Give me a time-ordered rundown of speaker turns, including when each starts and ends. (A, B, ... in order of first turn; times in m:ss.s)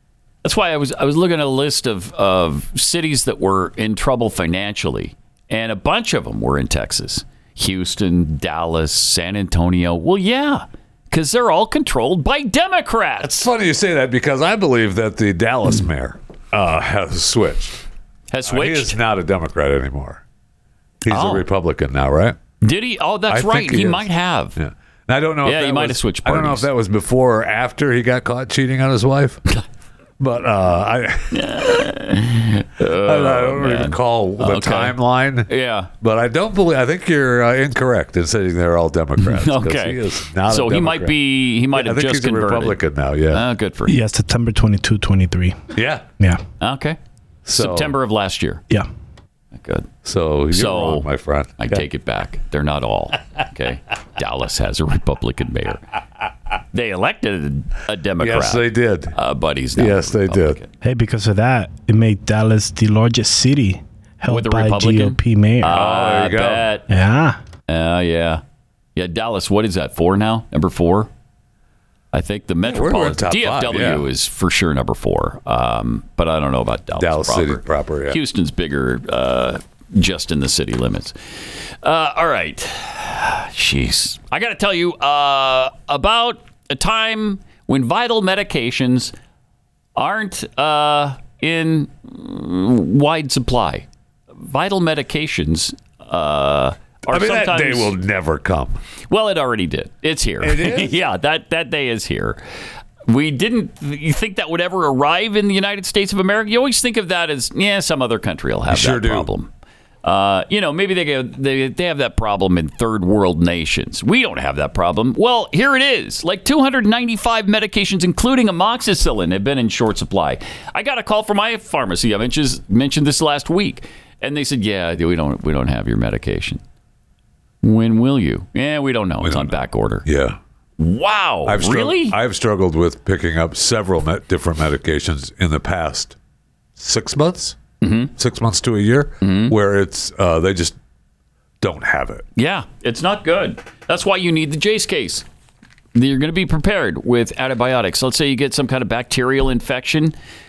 0:00.4-0:13.4 A
0:13.2-0:17.8 B
0:18.3-0:19.0 A
0:18.4-0:20.2 B
0:21.0-0:22.4 B
0:21.1-0:21.5 A
0:22.6-0:24.6 A
0:23.3-0:29.4 B
0:25.4-0:26.7 A
0:30.2-0:31.4 B
0:31.3-0:35.9 A
0:33.0-0:35.5 B
0:36.0-0:41.2 B
0:39.2-0:42.8 A
0:41.7-0:43.4 B
0:43.3-0:44.0 A
0:43.9-0:46.4 C
0:45.7-0:46.0 B
0:46.6-0:47.0 A
0:47.4-0:48.0 B
0:47.6-0:48.6 A
0:49.5-0:49.9 A
0:50.0-0:51.9 B
0:50.5-0:51.1 A
0:51.6-0:55.8 A
0:56.7-1:00.7 A
0:58.2-0:59.2 B
0:59.8-1:00.6 B
1:00.8-1:05.8 C
1:04.3-1:06.9 A
1:05.6-1:06.7 B
1:06.9-1:07.4 C
1:07.7-1:08.4 A
1:09.0-1:11.1 A
1:12.1-1:21.2 A
1:12.6-1:14.1 B
1:17.0-1:18.2 B
1:21.8-1:29.1 A
1:30.0-1:37.9 A
1:37.1-1:38.8 B
1:39.1-1:42.4 A
1:40.4-1:40.9 B
1:43.1-1:49.5 A
1:48.7-1:49.3 B
1:50.0-2:06.6 A
2:07.6-2:10.1 A
2:09.2-2:10.4 B
2:10.8-2:12.2 A
2:11.4-2:16.2 B
2:16.8-2:17.6 B
2:17.8-2:18.1 A
2:18.2-2:20.8 B
2:19.2-2:19.5 A
2:21.6-2:22.2 B
2:22.4-2:25.2 A
2:25.9-2:30.2 A